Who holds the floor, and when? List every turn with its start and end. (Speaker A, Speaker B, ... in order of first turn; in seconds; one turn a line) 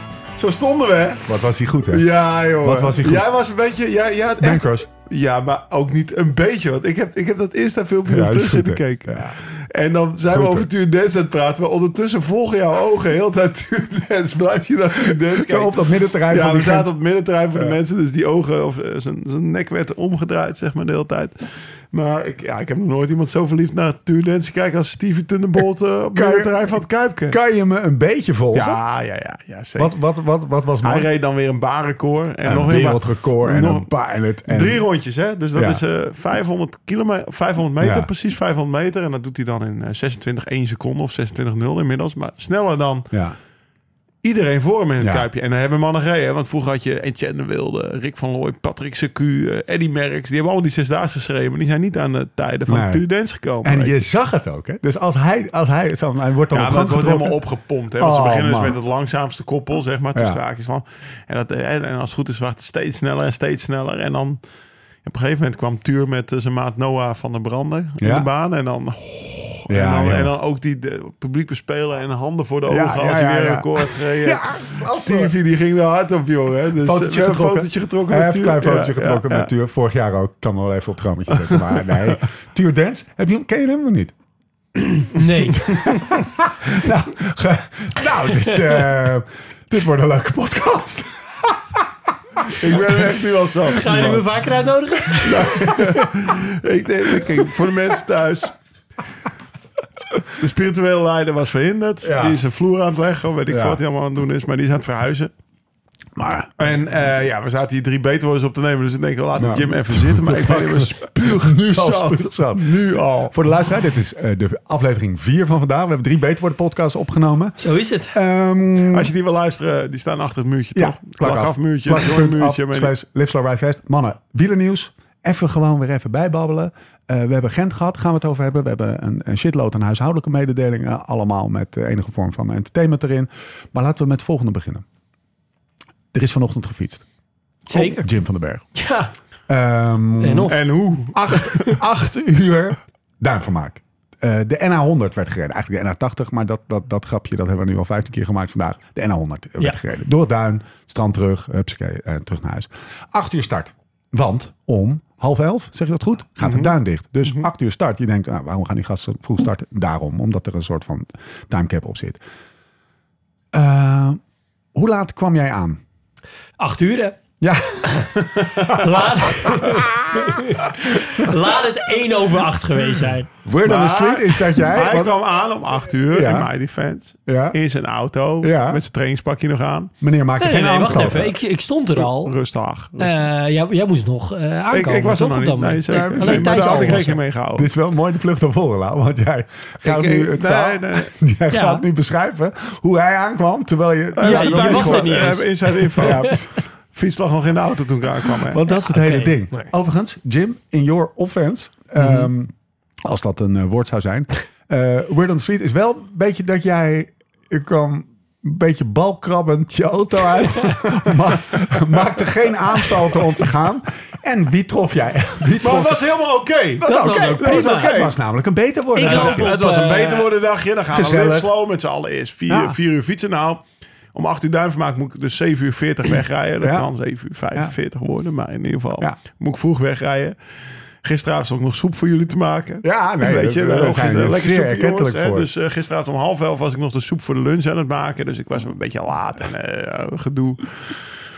Speaker A: 0.4-1.3
Speaker B: 1.2-2.1
Speaker A: 1.9-27.4
Speaker B: 2.6-3.3
Speaker B: 4.4-4.9
Speaker B: 8.1-9.4
Speaker B: 10.3-10.7
Speaker B: 15.3-16.9
Speaker B: 26.1-26.5
Speaker B: 27.3-28.8
Speaker A: 28.5-29.9
Speaker B: 29.8-31.1
Speaker A: 30.8-33.9
Speaker B: 32.5-34.8
Speaker A: 34.5-43.1
Speaker B: 35.5-35.8
Speaker B: 37.8-38.1
Speaker B: 43.1-43.4
Speaker A: 44.2-54.0
Speaker B: 45.0-45.3
Speaker B: 52.7-53.0
Speaker B: 53.6-57.4
Speaker A: 56.5-64.4
Speaker B: 58.0-58.8
Speaker B: 60.1-60.4
Speaker A: 65.0-79.5
Speaker B: 68.0-68.3
Speaker B: 69.7-70.3
Speaker B: 72.7-75.3
Speaker B: 76.8-84.1
Speaker A: 81.3-82.2
Speaker C: 85.1-85.8
Speaker A: 85.7-86.1
Speaker B: 85.9-91.9
Speaker B: 92.4-93.0
Speaker A: 92.5-94.3
Speaker C: 93.7-95.8
Speaker A: 95.2-98.6
Speaker A: 100.3-105.3
Speaker B: 102.0-102.4
Speaker B: 103.5-103.8
Speaker B: 106.2-106.7
Speaker A: 106.6-113.3
Speaker B: 109.4-117.6
Speaker C: 117.6-118.2
Speaker B: 118.1-119.1
Speaker A: 118.9-122.9
Speaker B: 120.8-134.8
Speaker B: 136.1-137.0
Speaker C: 137.7-138.1
Speaker B: 137.7-138.7
Speaker C: 138.8-139.1
Speaker B: 139.5-140.6
Speaker C: 140.2-140.6
Speaker A: 140.5-141.8
Speaker B: 141.1-162.2
Speaker A: 156.4-156.7
Speaker B: 163.5-164.2
Speaker B: 164.8-165.8
Speaker C: 166.6-167.2
Speaker B: 167.4-168.9
Speaker A: 168.3-168.8
Speaker C: 168.7-173.3
Speaker B: 169.5-170.4
Speaker B: 173.4-175.1
Speaker A: 173.6-179.9
Speaker B: 176.1-176.5
Speaker B: 177.3-177.6
Speaker B: 178.4-178.8
Speaker B: 180.0-181.3
Speaker C: 180.4-182.3
Speaker A: 182.0-183.2
Speaker C: 183.0-187.1
Speaker A: 184.7-187.7
Speaker B: 185.9-195.4
Speaker A: 189.8-191.1
Speaker C: 191.5-191.8
Speaker A: 194.2-198.6
Speaker C: 194.2-196.4
Speaker B: 196.0-196.5
Speaker B: 198.4-202.5
Speaker C: 198.8-199.7
Speaker B: 203.1-216.0
Speaker A: 215.6-216.9
Speaker B: 216.8-219.5
Speaker C: 216.8-218.0
Speaker A: 217.4-218.2
Speaker C: 218.9-220.3
Speaker A: 219.0-230.3
Speaker B: 220.9-221.5
Speaker B: 222.5-222.8
Speaker B: 226.6-226.9
Speaker A: 231.0-241.2
Speaker B: 232.8-235.5